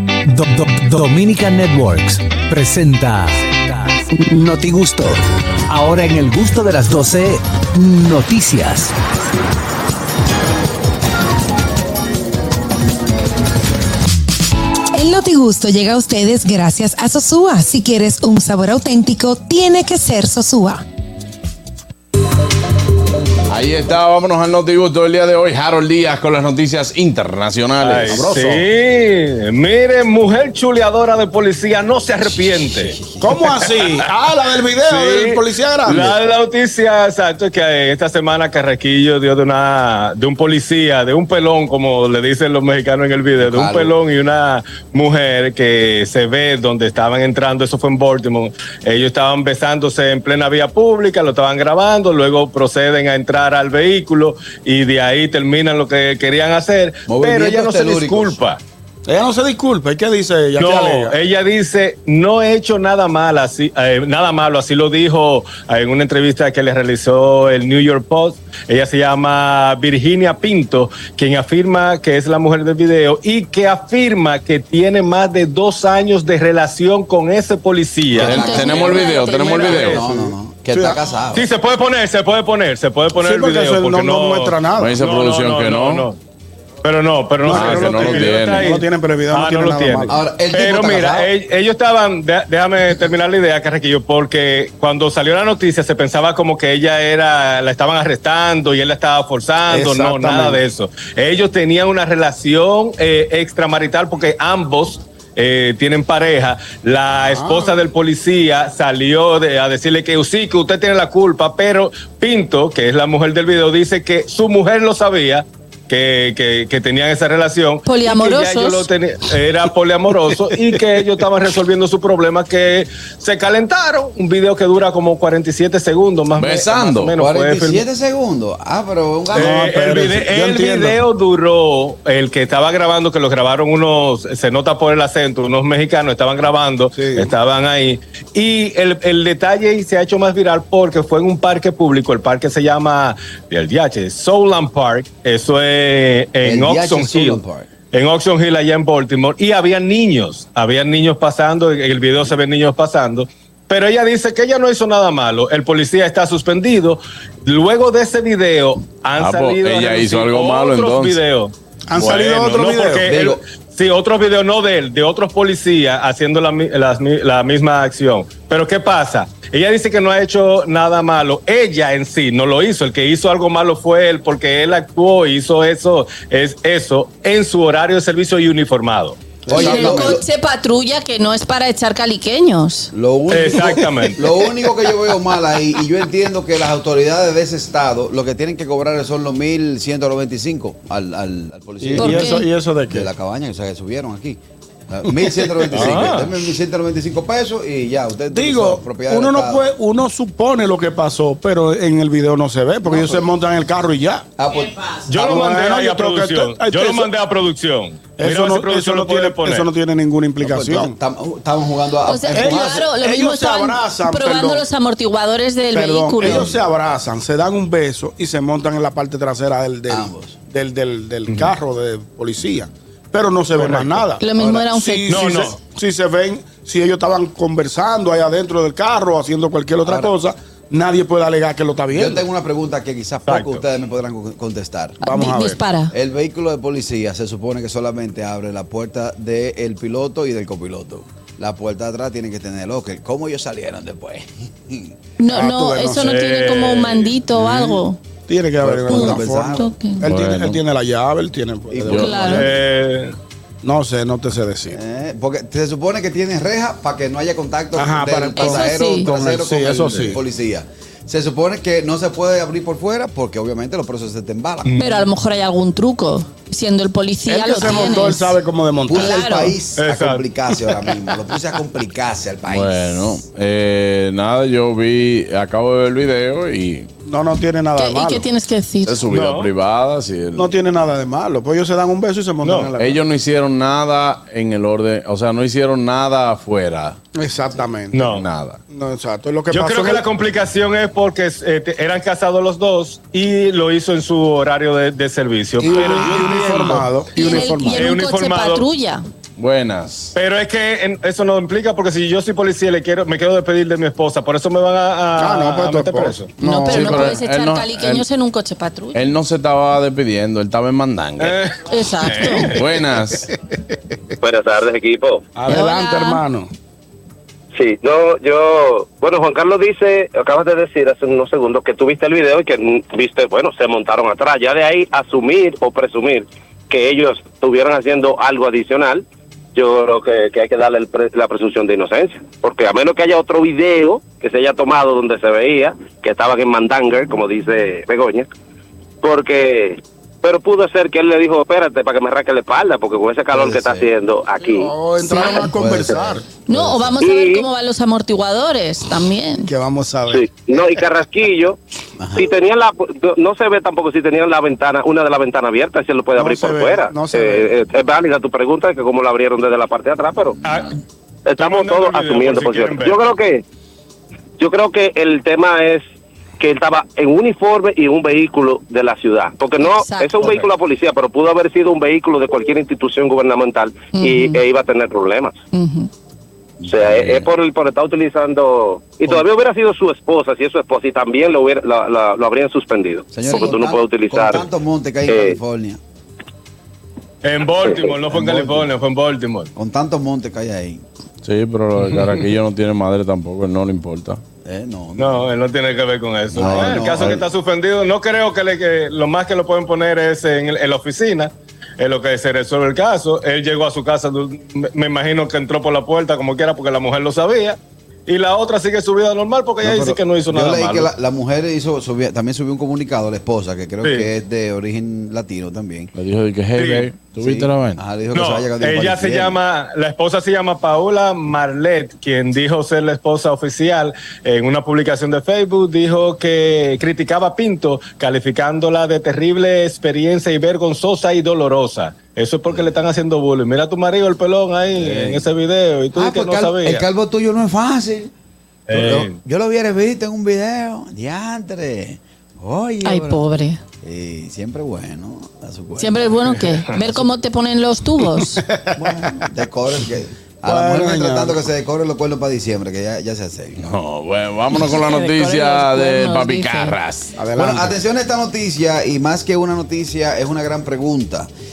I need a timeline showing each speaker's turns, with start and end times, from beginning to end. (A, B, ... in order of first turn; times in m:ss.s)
0:00.3-0:08.9 A
0:14.9-0:20.8 B
0:23.5-0:28.3 C
0:27.8-0:33.0 D
0:28.0-0:28.6 E
0:32.8-0:33.2 F
0:33.2-0:36.2 E
0:34.9-0:58.6 D
0:43.4-0:43.9 F
0:57.1-0:58.4 F
0:59.1-1:01.1 E
1:00.6-1:18.6 D
1:18.1-1:21.5 F
1:18.2-1:20.0 C
1:18.3-1:20.0 G
1:19.9-1:21.0 E
1:21.3-1:26.2 D
1:23.2-1:25.0 E
1:24.8-1:26.1 C
1:26.8-2:07.8 D
1:27.4-1:30.2 E
1:27.5-1:28.8 C
1:30.1-1:31.3 F
1:39.7-1:40.6 E
1:47.2-1:47.8 E
1:57.9-1:58.9 G
2:06.4-2:07.1 C
2:07.2-2:09.6 F
2:09.3-2:11.0 E
2:09.3-2:27.4 D
2:17.0-2:17.3 E
2:26.4-2:27.7 F
2:27.9-2:59.2 D
2:39.2-2:41.2 C
2:41.9-2:43.1 E
2:43.0-2:43.4 F
2:59.5-3:00.1 E
2:59.5-3:00.2 F
2:59.5-3:02.9 G
3:02.9-3:12.4 F
3:03.3-3:04.2 D
3:11.8-3:13.1 E
3:12.0-3:12.4 G
3:12.9-3:19.7 F
3:15.7-3:16.3 D
3:18.3-3:24.3 E
3:22.9-3:23.3 F
3:24.4-3:25.0 F
3:25.1-3:29.7 D
3:25.1-3:27.1 E
3:28.2-3:31.0 E
3:30.4-3:32.9 F
3:32.1-3:36.5 G
3:32.3-3:34.6 E
3:35.7-3:52.2 E
3:36.2-3:36.5 F
3:39.9-3:40.4 F
3:44.2-3:45.3 G
3:44.4-3:44.6 F
3:45.1-3:45.6 D
3:49.9-3:50.1 F
3:51.9-3:55.0 F
3:53.3-3:53.6 D
3:55.0-3:55.9 G
3:55.0-3:55.6 E
3:55.9-4:04.9 F
4:05.2-4:08.0 G
4:05.3-4:06.1 E
4:06.0-4:07.1 D
4:08.3-4:12.3 E
4:08.6-4:09.7 F
4:08.9-4:10.1 G
4:10.1-4:10.6 C
4:11.7-4:12.5 F
4:11.8-4:12.3 C
4:12.0-4:12.5 G
4:12.3-4:13.1 D
4:13.6-4:14.8 E
4:14.7-4:24.8 F
4:17.8-4:20.2 E
4:18.4-4:19.1 G
4:24.7-4:25.0 D
4:24.8-4:28.3 G
4:27.3-4:29.2 E
4:28.9-4:33.0 F
4:29.0-4:29.6 G
4:29.8-4:30.3 D
4:32.5-4:36.9 C
4:37.1-4:38.2 E
4:37.8-4:39.0 G
4:38.9-4:40.5 C
4:39.1-4:39.5 D
4:40.4-4:43.0 E
4:42.4-4:42.7 D
4:42.8-4:47.0 C
4:47.2-4:48.1 E
4:47.9-4:48.3 D
4:48.0-4:48.6 C
4:48.7-4:50.0 E
4:49.5-4:56.9 D
4:55.6-4:57.8 E
4:57.2-4:59.0 G
4:57.6-4:58.6 D
4:59.4-5:00.1 C
5:00.2-5:06.3 D
5:05.2-5:07.1 E
5:06.4-5:09.1 G
5:06.7-5:08.0 C
5:08.9-5:11.4 C
5:11.2-5:11.5 D
5:11.7-5:12.5 G
5:12.1-5:12.6 D
5:12.5-5:13.3 C
5:14.2-5:15.2 H
5:15.4-5:16.5 E
5:15.5-5:16.2 G
5:17.6-5:38.3 H
5:39.0-5:44.7 H
5:43.3-5:43.9 F
5:44.5-5:46.2 E
5:45.0-5:45.5 G
5:45.5-5:47.0 F
5:46.5-5:49.5 G
5:47.0-5:47.4 H
5:49.5-5:50.4 E
5:50.1-5:51.6 H
5:52.0-5:52.3 F
5:52.2-6:00.4 H
5:56.2-5:57.5 E
6:00.4-6:00.7 D
6:01.3-6:03.4 H
6:01.4-6:03.0 D
6:04.4-6:05.8 H
6:06.4-6:15.4 H
6:09.6-6:10.4 G
6:14.0-6:14.4 G
6:15.5-6:15.9 G
6:16.7-6:17.2 C
6:16.7-6:24.4 H
6:23.1-6:25.8 F
6:23.2-6:23.5 G
6:25.1-6:25.4 H
6:27.2-6:29.5 D
6:28.1-6:28.7 F
6:29.6-6:30.8 F
6:31.2-6:34.2 C
6:34.4-6:35.3 F
6:35.0-6:50.9 D
6:36.3-6:37.3 F
6:36.4-6:36.9 C
6:49.6-6:55.9 F
6:53.8-6:54.1 D
6:56.0-6:57.8 C
6:56.6-6:56.9 D
6:57.2-6:59.4 F
6:58.1-7:16.8 D
7:14.8-7:15.3 F
7:16.0-7:18.1 F
7:18.7-7:19.2 D
7:18.7-7:23.2 F
7:22.8-7:23.6 G
7:23.8-7:26.1 F
7:25.8-7:28.4 G
7:28.4-7:28.6 E
7:28.8-7:33.7 F
7:30.4-7:31.4 E
7:33.6-7:37.1 C
7:34.5-7:36.8 G
7:37.2-7:37.7 E
7:37.4-7:41.3 F